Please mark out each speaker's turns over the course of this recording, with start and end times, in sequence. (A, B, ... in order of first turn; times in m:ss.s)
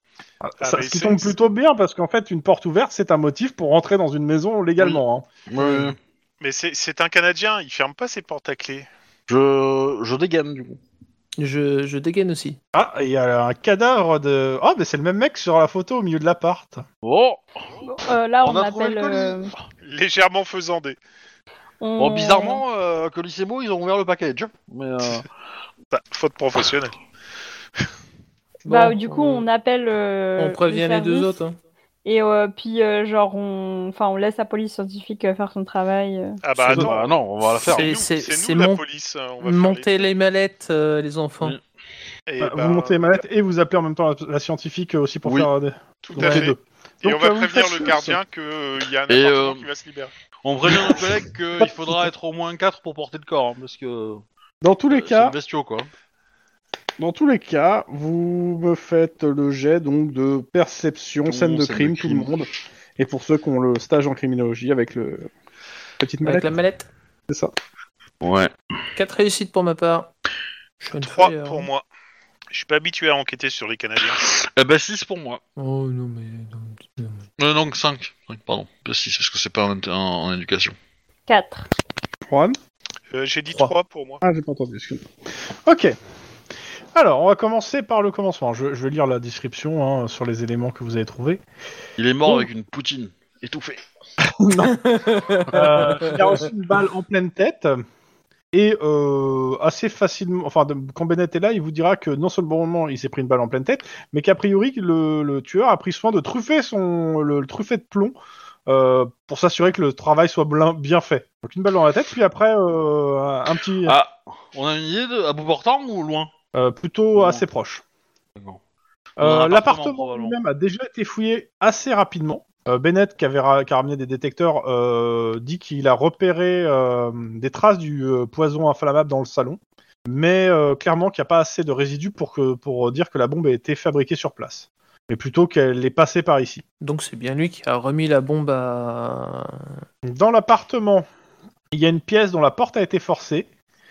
0:00.4-0:05.8 A
0:00.6-0:01.3 B
0:04.8-0:06.0 C
0:05.6-0:05.8 D
0:06.4-0:08.9 B
0:09.3-0:10.8 C
0:11.4-0:12.6 D
0:12.7-0:16.8 A
0:17.0-0:17.8 C
0:17.8-0:19.5 E
0:18.4-0:19.5 C
0:19.8-0:21.0 B
0:21.8-0:22.6 E
0:22.0-0:25.3 C
0:25.9-0:27.0 B
0:28.6-0:29.4 D
0:28.6-0:31.3 E
0:30.4-0:31.6 D
0:32.0-0:36.4 E
0:36.4-0:40.0 B
0:36.7-0:37.0 A
0:36.7-0:37.9 C
0:37.5-0:38.8 D
0:39.4-0:41.6 D
0:42.3-0:43.2 B
0:42.4-0:48.2 A
0:46.0-0:50.1 B
0:49.1-0:49.6 C
0:50.4-0:54.2 C
0:50.6-0:51.0 A
0:51.6-0:52.1 A
0:54.6-0:55.4 A
0:54.9-0:55.9 C
0:57.0-1:05.3 A
1:01.2-1:02.4 C
1:06.0-1:06.5 A
1:06.2-1:06.9 D
1:08.2-1:08.5 C
1:09.0-1:10.1 D
1:10.8-1:11.7 D
1:10.9-1:11.8 B
1:12.5-1:14.3 B
1:14.1-1:15.4 C
1:15.6-1:17.2 D
1:17.4-1:20.8 C
1:21.3-1:21.7 E
1:22.3-1:22.6 A
1:23.1-1:24.2 B
1:24.2-1:26.0 A
1:26.9-1:31.4 A
1:32.0-1:33.8 C
1:34.2-1:34.8 A
1:34.7-1:36.4 D
1:35.5-1:37.8 A
1:38.5-1:48.2 A
1:48.7-1:54.0 A
1:53.8-1:56.3 C
1:56.5-1:57.8 A
1:57.1-1:57.4 C
1:59.2-2:00.4 C
1:59.2-2:16.6 A
2:16.8-2:19.8 D
2:20.0-2:21.0 A
2:21.7-2:23.5 A